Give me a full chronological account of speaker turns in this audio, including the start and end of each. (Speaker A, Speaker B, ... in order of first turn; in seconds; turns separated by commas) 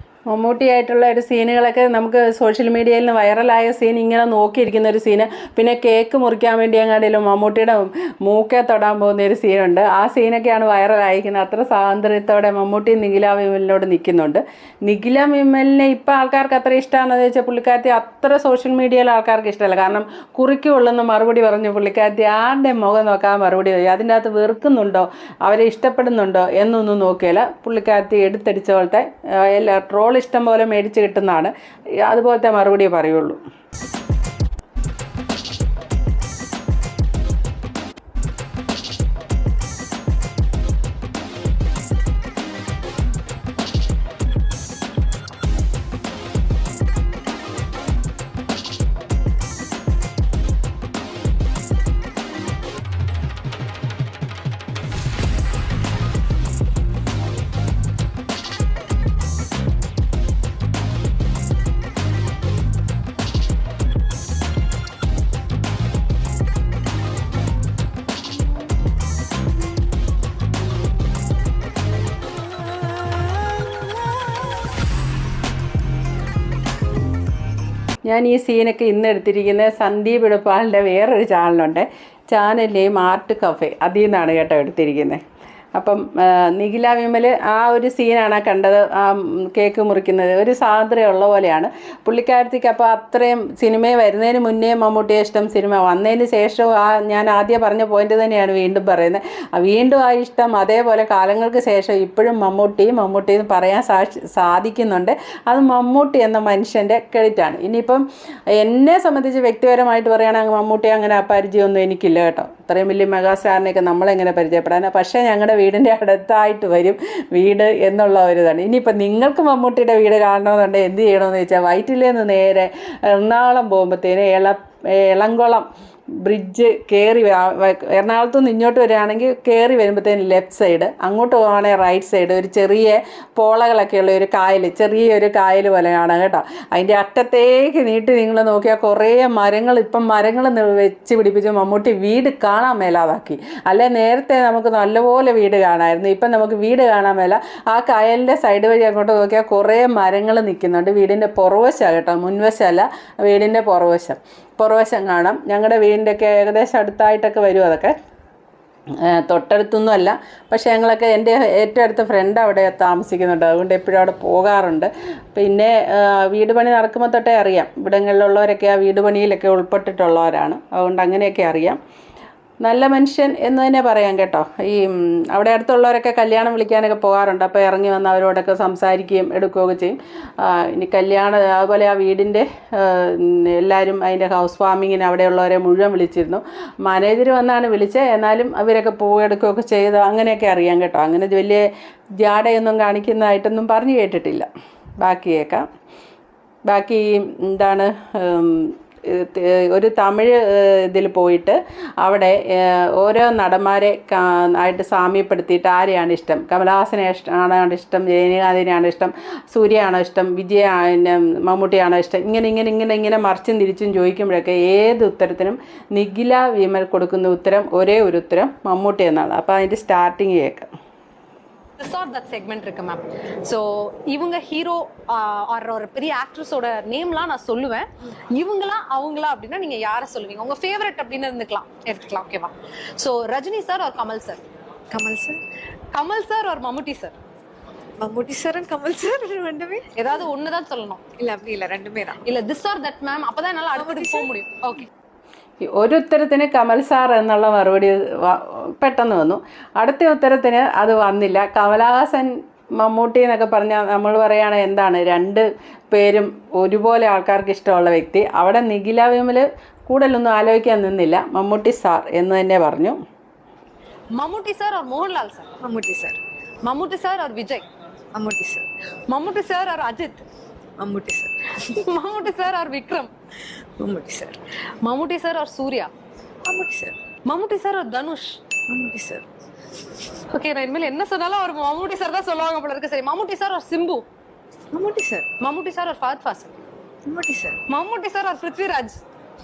Speaker A: 0.3-33.4, Speaker A: 78.1-85.2, Speaker A: 85.8-108.1, Speaker A: 108.6-125.7, Speaker A: 126.2-157.9, Speaker A: 159.0-171.8, Speaker A: 172.6-191.7, Speaker A: 192.2-194.5, Speaker A: 195.0-195.7, Speaker A: 196.7-220.7, Speaker B: 221.8-234.4, Speaker C: 234.9-235.4, Speaker B: 235.9-237.2, Speaker C: 238.0-240.2, Speaker B: 240.0-241.1, Speaker C: 241.2-242.2, Speaker B: 242.2-244.9, Speaker C: 243.8-244.3, Speaker A: 245.6-263.0, Speaker B: 264.1-265.5, Speaker C: 265.6-266.2, Speaker B: 266.6-267.7, Speaker C: 268.1-268.6, Speaker B: 269.1-270.3, Speaker C: 270.8-271.4, Speaker B: 271.6-273.1, Speaker C: 273.9-274.3, Speaker B: 274.0-275.9, Speaker C: 276.5-276.9, Speaker B: 277.3-278.5, Speaker C: 278.7-279.2, Speaker B: 280.0-284.1, Speaker C: 284.7-285.3, Speaker B: 285.4-286.6, Speaker C: 287.1-287.6, Speaker B: 287.7-289.0